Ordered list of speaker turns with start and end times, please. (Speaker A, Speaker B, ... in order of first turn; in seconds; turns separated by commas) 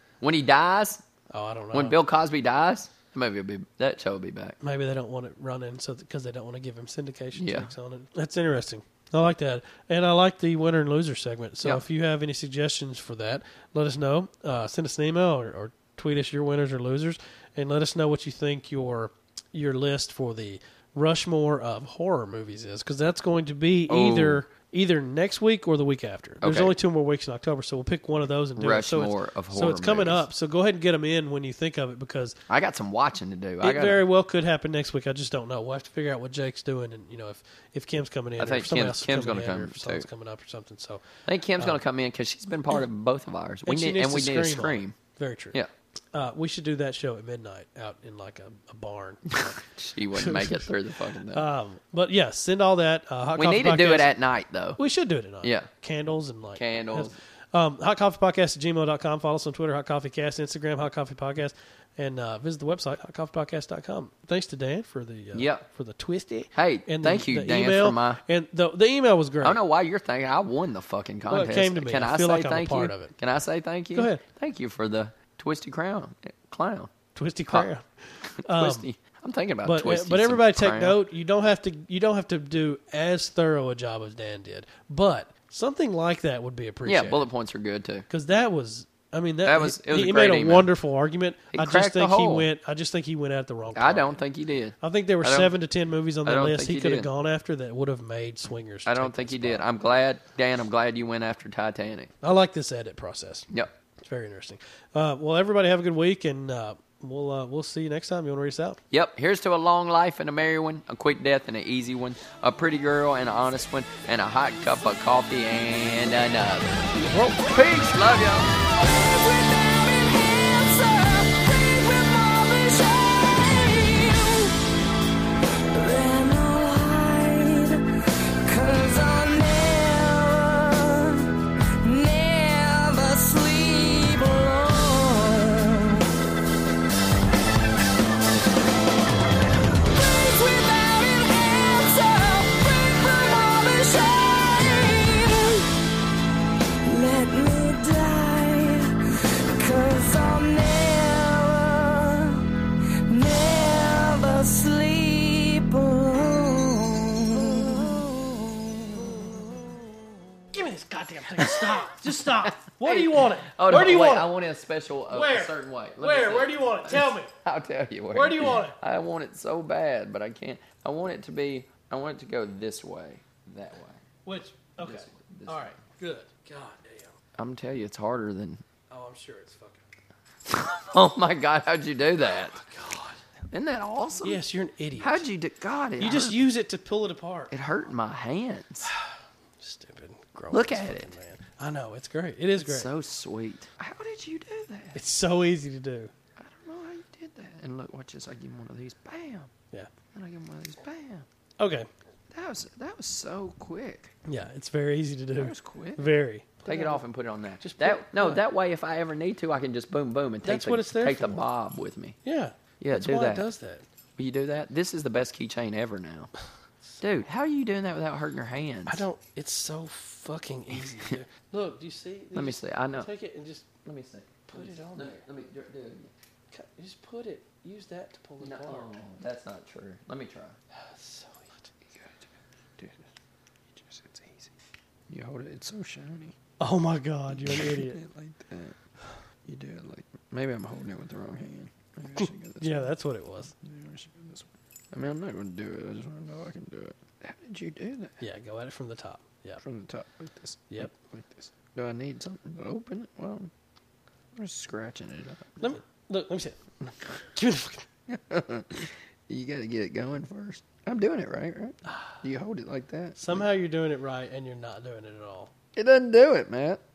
Speaker A: 0.2-1.0, Speaker B: 1.3-2.0, Speaker A: 1.7-4.5, Speaker B: 4.6-32.4, Speaker A: 7.3-7.7, Speaker A: 23.9-24.4, Speaker A: 26.4-26.7, Speaker A: 28.6-30.2, Speaker A: 32.5-34.0, Speaker B: 33.6-41.0, Speaker A: 38.4-40.0, Speaker A: 41.3-44.9, Speaker B: 43.6-45.6, Speaker B: 46.1-49.6, Speaker A: 49.3-51.4, Speaker B: 50.1-50.7, Speaker B: 51.3-54.1, Speaker A: 53.4-54.8, Speaker B: 54.8-69.6, Speaker A: 55.4-55.7, Speaker A: 56.5-57.1, Speaker A: 65.3-65.6, Speaker A: 66.5-68.2, Speaker A: 69.4-76.9, Speaker B: 71.3-73.1, Speaker B: 73.9-74.2, Speaker B: 77.1-78.9, Speaker A: 78.4-81.0, Speaker B: 79.7-87.3, Speaker A: 86.8-88.0, Speaker B: 88.1-94.2, Speaker A: 89.4-90.7, Speaker A: 91.5-92.5, Speaker A: 93.7-95.5, Speaker B: 94.8-99.7, Speaker A: 96.2-97.1, Speaker A: 98.8-102.1, Speaker B: 102.2-103.5, Speaker B: 104.0-108.8, Speaker A: 108.9-118.5, Speaker C: 118.5-124.6, Speaker C: 125.7-136.1, Speaker C: 139.8-145.7, Speaker C: 146.8-152.5, Speaker C: 153.0-159.3, Speaker B: 160.5-164.3, Speaker A: 161.4-174.0, Speaker B: 165.1-167.3, Speaker B: 168.1-168.8, Speaker B: 174.2-177.1, Speaker A: 174.8-175.7, Speaker A: 177.4-178.6, Speaker B: 178.9-179.8, Speaker A: 180.5-182.6, Speaker B: 182.2-183.2, Speaker A: 183.5-184.4, Speaker B: 184.2-185.2, Speaker A: 185.0-186.4, Speaker B: 186.0-187.5, Speaker A: 187.5-188.9, Speaker B: 189.6-192.9, Speaker A: 190.5-191.1, Speaker A: 192.6-195.0, Speaker B: 194.9-196.1, Speaker A: 196.4-199.5, Speaker A: 200.1-201.2, Speaker B: 201.6-201.9, Speaker A: 202.3-204.1, Speaker B: 204.2-207.0, Speaker A: 205.3-206.1, Speaker A: 206.7-212.2, Speaker B: 207.6-208.4, Speaker B: 210.4-211.4, Speaker B: 212.2-213.8, Speaker A: 212.8-213.4, Speaker A: 214.2-216.3, Speaker A: 217.0-219.0, Speaker B: 218.9-223.7, Speaker A: 220.7-221.2, Speaker A: 222.3-223.1, Speaker A: 223.8-226.1, Speaker B: 224.5-225.2, Speaker B: 226.5-229.0, Speaker A: 228.4-230.6, Speaker B: 230.7-231.7, Speaker B: 233.9-234.3, Speaker A: 235.1-236.3, Speaker B: 236.6-238.0, Speaker A: 237.3-238.8, Speaker A: 239.4-242.9, Speaker B: 242.2-243.5, Speaker A: 243.5-248.2, Speaker B: 248.2-249.6, Speaker A: 249.6-253.5, Speaker B: 250.7-250.9, Speaker A: 254.3-255.7, Speaker B: 255.6-256.6, Speaker B: 257.2-257.9, Speaker A: 258.1-263.4, Speaker B: 263.2-265.5, Speaker A: 265.8-266.8